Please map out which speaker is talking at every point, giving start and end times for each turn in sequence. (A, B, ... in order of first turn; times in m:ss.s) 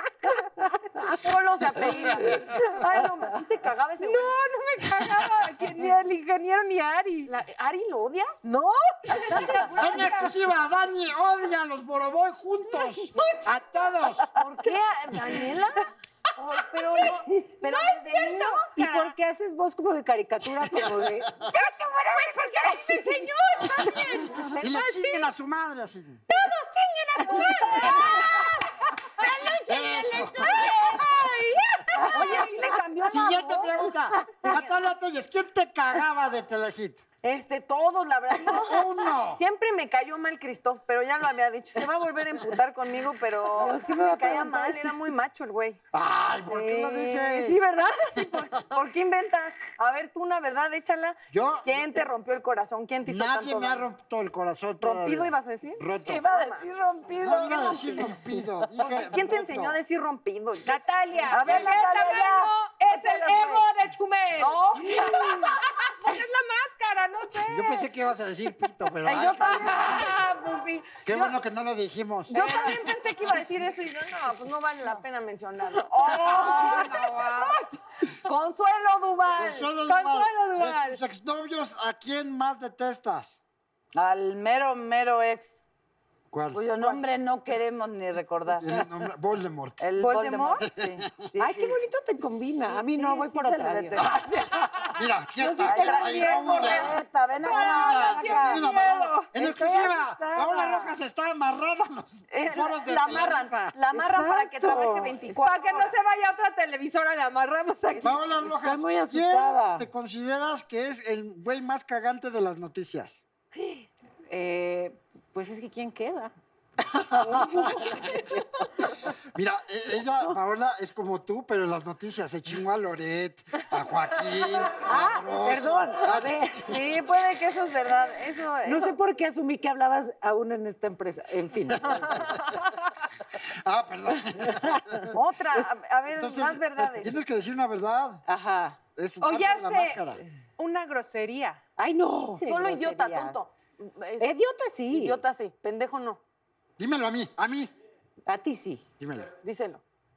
0:00.2-0:01.1 A
0:01.1-0:04.3 B
0:04.0-0:07.3 C
0:07.3-0:08.3 B
0:08.4-0:09.6 A
0:09.1-0:10.3 C
0:09.2-0:09.7 B
0:09.7-0:14.3 D
0:13.1-0:13.5 C
0:14.3-0:18.6 B
0:16.7-0:19.1 C
0:18.8-0:21.3 A
0:20.8-0:21.4 D
0:21.5-0:25.3 C
0:24.6-0:26.2 D
0:26.3-0:29.3 C
0:27.3-0:28.0 A
0:27.5-0:28.4 B
0:29.2-0:31.1 B
0:29.7-0:30.9 D
0:30.4-0:32.7 C
0:32.0-0:32.5 A
0:32.0-0:34.7 B
0:33.1-0:37.0 D
0:37.2-0:45.8 B
0:38.5-0:39.4 D
0:43.6-0:44.9 A
0:45.9-0:47.6 D
0:46.4-0:53.8 B
0:51.3-0:51.8 D
0:53.0-0:56.3 D
0:54.8-0:56.7 B
0:56.0-0:58.2 E
0:57.2-0:59.8 D
0:57.3-0:58.0 B
0:58.8-1:00.8 B
1:00.6-1:07.9 C
1:01.3-1:03.7 B
1:01.3-1:02.4 E
1:04.4-1:05.6 B
1:07.4-1:10.1 D
1:09.0-1:10.1 B
1:09.5-1:11.3 C
1:11.0-1:12.4 D
1:12.3-1:17.2 B
1:12.3-1:12.9 C
1:16.0-1:17.6 D
1:16.2-1:17.5 C
1:18.2-1:19.7 B
1:19.3-1:23.4 D
1:19.9-1:21.0 C
1:23.9-1:25.6 E
1:26.3-1:26.6 D
1:26.5-1:28.7 E
1:26.8-1:27.0 B
1:28.6-1:29.9 D
1:29.8-1:31.8 E
1:30.0-1:30.6 B
1:30.6-1:31.1 D
1:31.4-1:34.1 A
1:32.7-1:34.5 E
1:34.9-1:43.7 D
1:35.3-1:37.0 A
1:35.6-1:38.6 E
1:35.9-1:36.9 B
1:37.4-1:39.3 C
1:39.3-1:41.0 A
1:42.3-1:45.9 B
1:43.9-1:45.4 A
1:45.4-1:48.1 C
1:48.0-1:49.9 A
1:48.0-1:53.2 D
1:54.3-1:58.7 A
1:57.1-1:57.9 D
1:59.3-2:06.6 D
2:04.7-2:06.8 A
2:06.6-2:09.0 B
2:08.6-2:12.3 A
2:11.8-2:12.4 D
2:13.3-2:15.1 D
2:14.5-2:14.9 A
2:15.1-2:17.2 B
2:16.2-2:18.2 D
2:18.3-2:18.8 A
2:19.0-2:20.2 D
2:19.2-2:20.0 C
2:20.6-2:21.6 C
2:21.8-2:23.4 A
2:22.4-2:24.3 B
2:24.2-2:25.2 A
2:24.9-2:26.2 B
2:26.8-2:27.7 D
2:28.3-2:28.8 A
2:29.0-2:29.3 D
2:29.4-2:29.8 B